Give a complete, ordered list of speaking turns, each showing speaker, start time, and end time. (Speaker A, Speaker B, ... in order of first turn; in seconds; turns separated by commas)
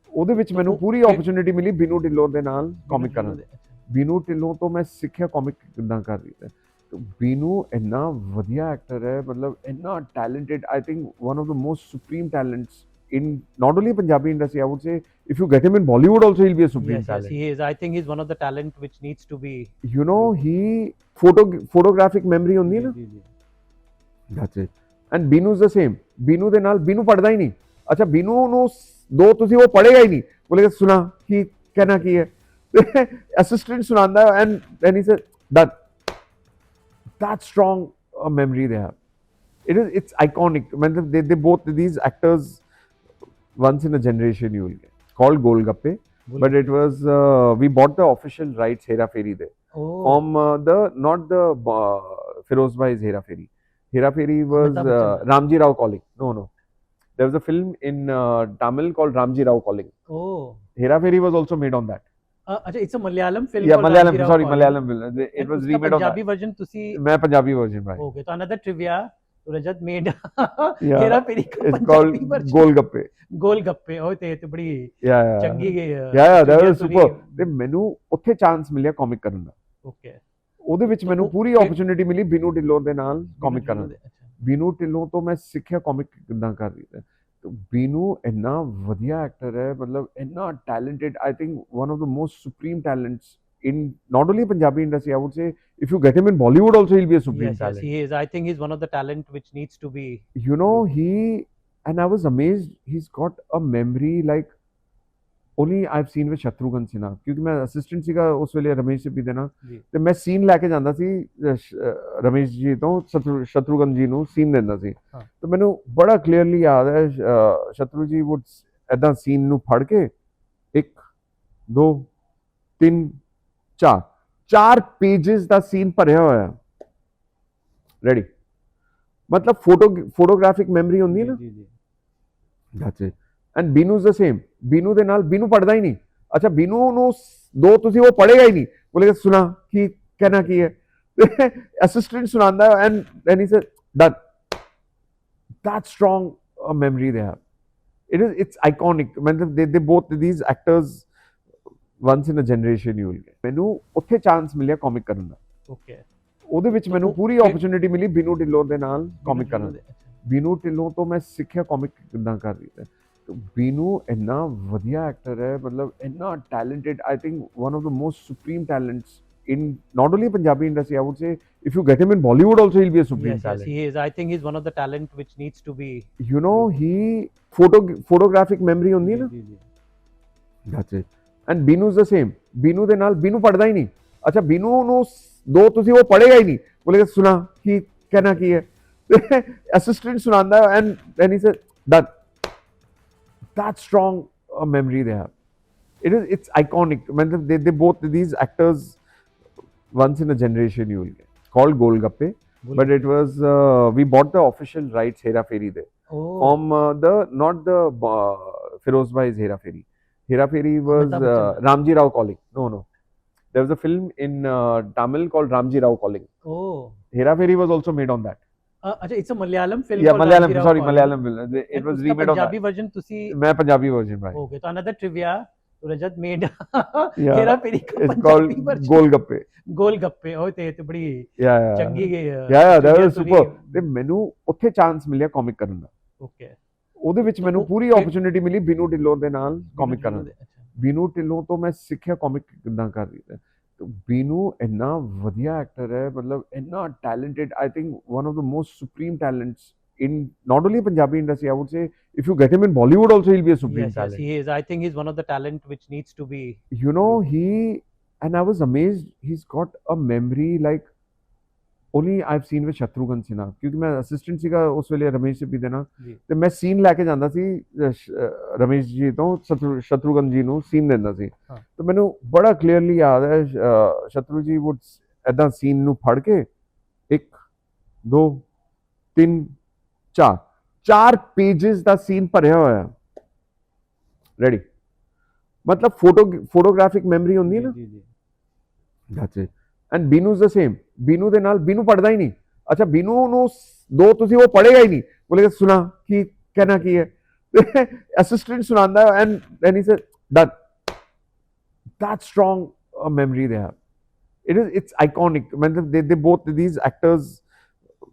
Speaker A: 0.1-3.4, Speaker B: 0.5-1.2, Speaker B: 2.9-3.8, Speaker A: 3.9-17.3, Speaker B: 16.8-20.3, Speaker A: 19.8-22.9, Speaker B: 22.6-23.3, Speaker A: 24.3-35.7, Speaker A: 37.2-38.9, Speaker A: 39.6-42.6, Speaker A: 43.6-49.5, Speaker B: 46.3-46.6, Speaker B: 49.7-50.2, Speaker A: 50.0-56.5, Speaker B: 54.5-55.2, Speaker A: 57.2-59.9, Speaker B: 60.1-60.6, Speaker A: 60.8-62.0, Speaker B: 62.5-64.8, Speaker A: 63.6-66.2, Speaker B: 65.3-67.0, Speaker A: 66.9-68.0, Speaker B: 68.0-72.7, Speaker A: 70.8-73.1, Speaker B: 73.3-77.5, Speaker A: 75.0-79.5, Speaker B: 79.8-80.2, Speaker A: 80.6-97.9, Speaker B: 81.0-81.8, Speaker B: 83.4-84.3, Speaker B: 97.3-100.8, Speaker A: 100.3-104.5, Speaker A: 105.6-120.1, Speaker A: 121.7-122.1, Speaker A: 122.8-123.2, Speaker A: 123.8-126.6, Speaker A: 129.3-131.4, Speaker B: 131.1-131.7, Speaker A: 132.7-144.2, Speaker A: 145.6-147.4, Speaker A: 148.1-151.1, Speaker A: 152.0-155.4, Speaker B: 155.7-156.0, Speaker A: 156.5-173.7, Speaker B: 156.9-157.6, Speaker B: 159.2-160.1, Speaker B: 173.2-176.7, Speaker A: 176.2-179.3, Speaker B: 179.0-179.6, Speaker A: 180.7-192.1, Speaker A: 193.5-195.3, Speaker A: 196.0-199.0, Speaker A: 199.9-205.9, Speaker B: 202.6-202.9, Speaker B: 206.1-206.6, Speaker A: 206.4-212.8, Speaker B: 210.9-211.6, Speaker A: 213.5-216.3, Speaker B: 216.4-217.0, Speaker A: 217.1-218.4, Speaker B: 218.8-221.1, Speaker A: 220.0-222.6, Speaker B: 221.7-223.3, Speaker A: 223.3-224.4, Speaker B: 224.3-229.1, Speaker A: 227.2-229.5, Speaker B: 229.6-233.8, Speaker A: 231.4-235.9, Speaker B: 236.2-236.6, Speaker A: 237.0-254.2, Speaker B: 237.4-238.1, Speaker B: 239.7-240.7, Speaker B: 253.7-257.2, Speaker A: 256.7-260.9, Speaker A: 261.9-276.5, Speaker A: 278.0-278.4, Speaker A: 279.1-279.5, Speaker A: 280.1-282.9, Speaker A: 285.6-287.7, Speaker B: 287.4-288.1, Speaker A: 289.1-300.5, Speaker A: 302.0-303.7, Speaker A: 304.4-307.4